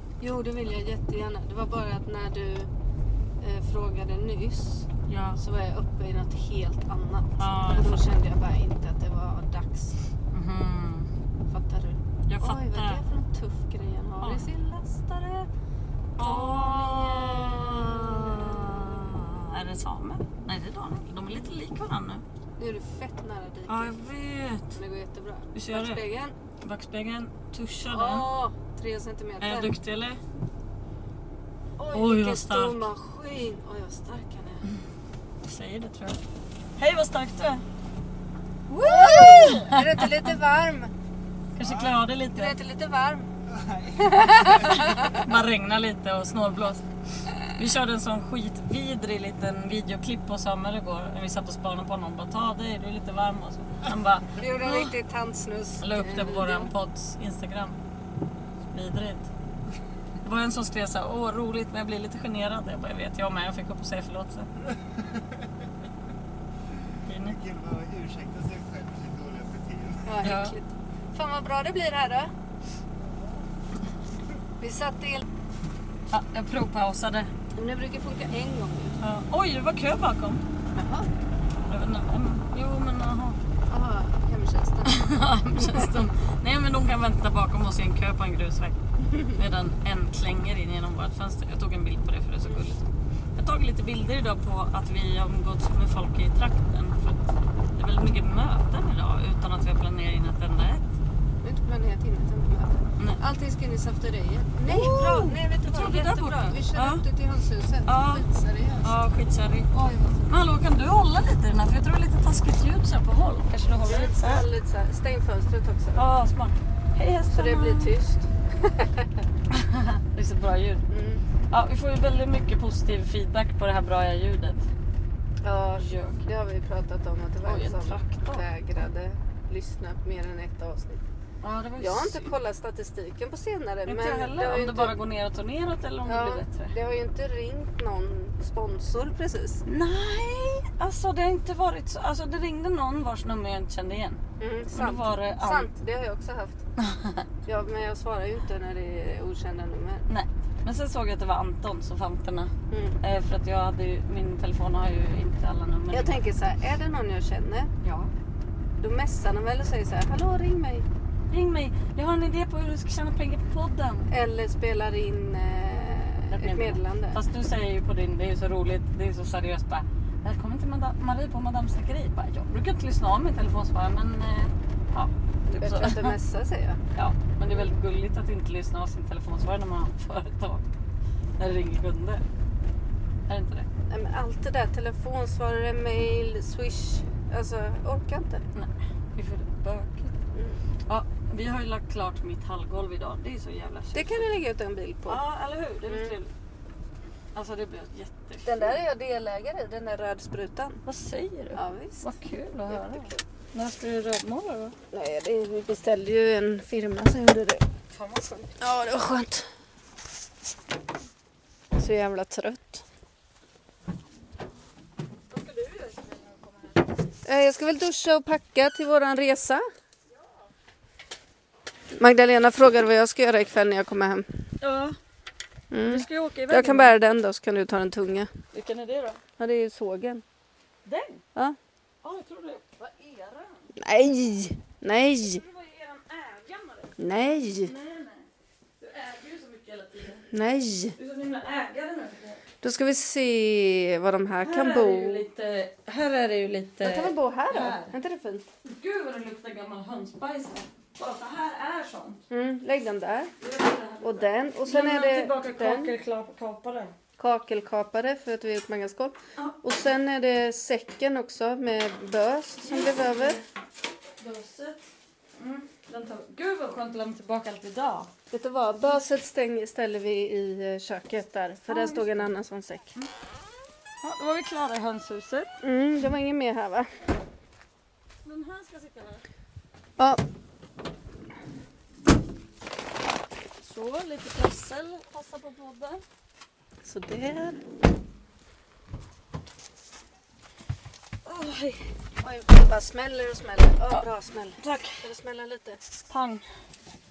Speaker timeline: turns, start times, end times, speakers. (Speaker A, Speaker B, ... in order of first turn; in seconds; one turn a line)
Speaker A: 0.2-2.7
Speaker A: 3.4-10.0
Speaker B: 5.1-5.4
Speaker B: 7.4-8.1
Speaker B: 10.3-11.1
Speaker A: 11.5-15.5
Speaker B: 12.3-13.0
Speaker B: 14.2-14.5
Speaker A: 16.2-19.1
Speaker B: 16.2-22.2
Speaker A: 22.6-23.9
Speaker B: 23.7-24.8
Speaker A: 24.7-26.4
Speaker B: 25.5-26.0
Speaker B: 26.6-28.3
Speaker A: 27.9-29.8
Speaker B: 29.4-30.2
Speaker A: 31.8-34.6
Speaker B: 31.9-32.8
Speaker B: 35.4-36.2
Speaker B: 36.8-37.6
Speaker B: 38.7-40.3
Speaker A: 38.7-40.9
Speaker B: 41.5-42.5
Speaker C: 41.6-41.9
Speaker A: 42.3-43.3
Speaker C: 43.6-44.2
Speaker A: 43.9-45.3
Speaker B: 44.4-54.9
Speaker A: 54.3-56.7
Speaker B: 55.8-57.8
Speaker B: 58.7-59.3
Speaker B: 60.2-64.5
Speaker B: 67.0-67.4
Speaker C: 67.3-70.1
Speaker A: 70.0-72.3
Speaker B: 70.2-70.6
Speaker A: 74.6-75.2
Speaker B: 76.1-77.3
Speaker A: 77.5-79.0
Speaker B: 79.0-80.4
Speaker A: 80.8-81.1
Speaker B: 81.7-83.4
Speaker A: 83.7-86.0
Speaker B: 84.8-100.9
Speaker A: 89.0-89.4
Speaker A: 101.4-109.0
Speaker B: 104.6-107.0
Speaker B: 107.8-108.2
Speaker B: 108.8-109.7
Speaker A: 109.7-110.3
Speaker B: 110.3-114.5
Speaker A: 113.8-116.0
Speaker B: 116.0-117.9
Speaker A: 117.3-119.1
Speaker B: 119.5-120.8
Speaker A: 120.9-121.2
Speaker B: 121.5-124.7
Speaker A: 125.4-131.0
Speaker B: 125.8-126.2
Speaker B: 127.4-128.4
Speaker B: 131.4-132.3
Speaker A: 131.8-134.9
Speaker B: 133.8-136.7
Speaker A: 136.1-139.6
Speaker B: 139.6-144.2
Speaker A: 144.4-146.6
Speaker B: 144.7-145.7
Speaker B: 146.8-147.3
Speaker A: 147.4-150.1
Speaker B: 150.1-156.1
Speaker A: 152.7-153.0
Speaker A: 155.9-157.7
Speaker B: 157.8-158.1
Speaker A: 158.8-160.9
Speaker B: 161.3-164.1
Speaker A: 164.1-167.2
Speaker B: 166.3-176.1
Speaker A: 175.5-176.8
Speaker B: 176.9-180.7
Speaker B: 181.4-182.2
Speaker B: 183.3-183.7
Speaker A: 183.9-188.4
Speaker B: 188.5-190.1
Speaker A: 190.3-190.6
Speaker B: 190.9-194.3
Speaker A: 193.9-195.2
Speaker B: 195.1-196.3
Speaker A: 195.8-196.2
Speaker B: 197.3-198.8
Speaker A: 198.4-200.8
Speaker B: 200.8-204.7
Speaker A: 201.5-202.1
Speaker A: 202.7-203.2
Speaker A: 204.9-207.6
Speaker B: 207.9-208.5
Speaker A: 208.6-209.5
Speaker A: 211.7-212.8
Speaker B: 215.3-216.9
Speaker A: 217.2-219.6
Speaker B: 220.1-220.4
Speaker A: 222.0-224.2
Speaker B: 224.6-224.9
Speaker A: 225.7-228.3
Speaker B: 225.8-226.9
Speaker B: 228.5-229.2
Speaker A: 229.4-230.2
Speaker B: 230.8-231.2
Speaker B: 232.0-233.7
Speaker A: 233.8-235.4
Speaker B: 235.2-236.9
Speaker A: 237.0-237.7
Speaker B: 237.6-238.3
Speaker B: 238.8-240.3
Speaker A: 240.3-240.9
Speaker B: 240.9-242.4
Speaker A: 242.6-245.2
Speaker B: 244.4-247.9
Speaker A: 246.8-248.5
Speaker B: 248.6-252.2
Speaker A: 252.3-253.3
Speaker B: 253.4-256.9
Speaker A: 254.0-255.9
Speaker A: 257.2-263.4
Speaker B: 262.6-263.4
Speaker B: 264.2-264.8
Speaker B: 265.4-268.1
Speaker A: 268.3-272.9
Speaker B: 271.7-272.1
Speaker B: 274.0-275.5
Speaker A: 275.6-276.9
Speaker B: 278.2-279.2
Speaker B: 283.6-286.0
Speaker A: 286.8-287.6
Speaker B: 291.2-291.9
Speaker A: 292.2-295.8
Speaker B: 294.6-295.0
Speaker B: 296.1-296.4